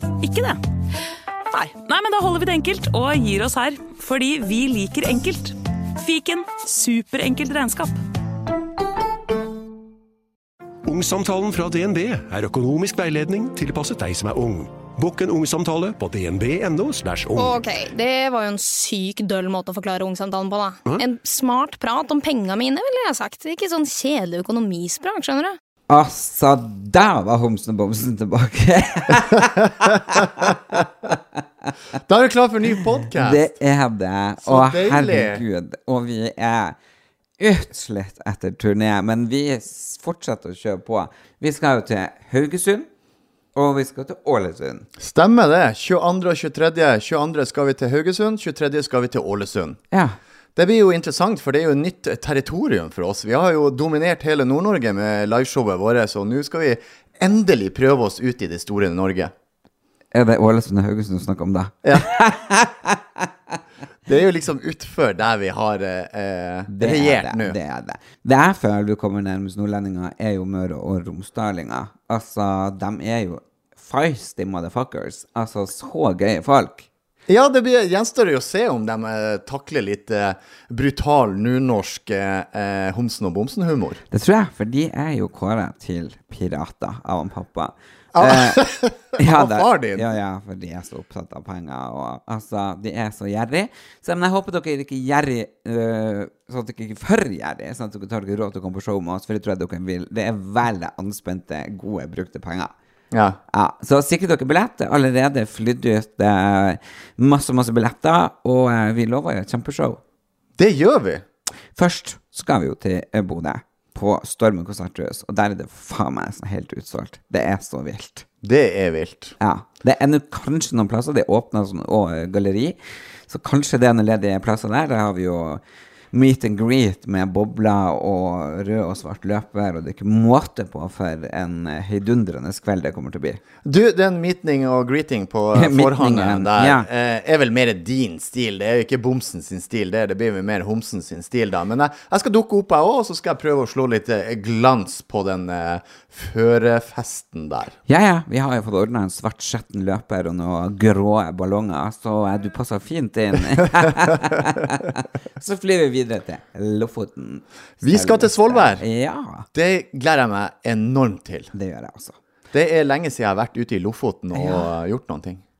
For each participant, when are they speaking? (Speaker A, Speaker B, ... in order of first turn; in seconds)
Speaker A: 0.2-0.6, 1.5-8.0
Speaker B: 10.8-17.6
Speaker C: 17.4-25.6
Speaker D: 25.9-31.2, 33.1-36.8, 37.4-42.9, 43.5-44.9, 60.1-63.3, 66.7-76.9, 84.1-88.6, 89.2-102.7, 103.5-110.0, 111.8-118.3, 119.4-122.8, 123.3-125.6, 126.1-133.4, 135.5-136.9, 147.9-159.5, 161.5-162.2, 164.3-164.7
Speaker E: 32.1-33.5, 34.4-35.4, 45.0-49.8, 50.6-59.3, 64.1-67.6, 77.3-84.0, 88.1-90.1, 103.1-103.4, 110.6-111.2, 118.4-119.4, 133.7-147.7, 157.8-158.8, 159.5-161.5, 162.5-165.4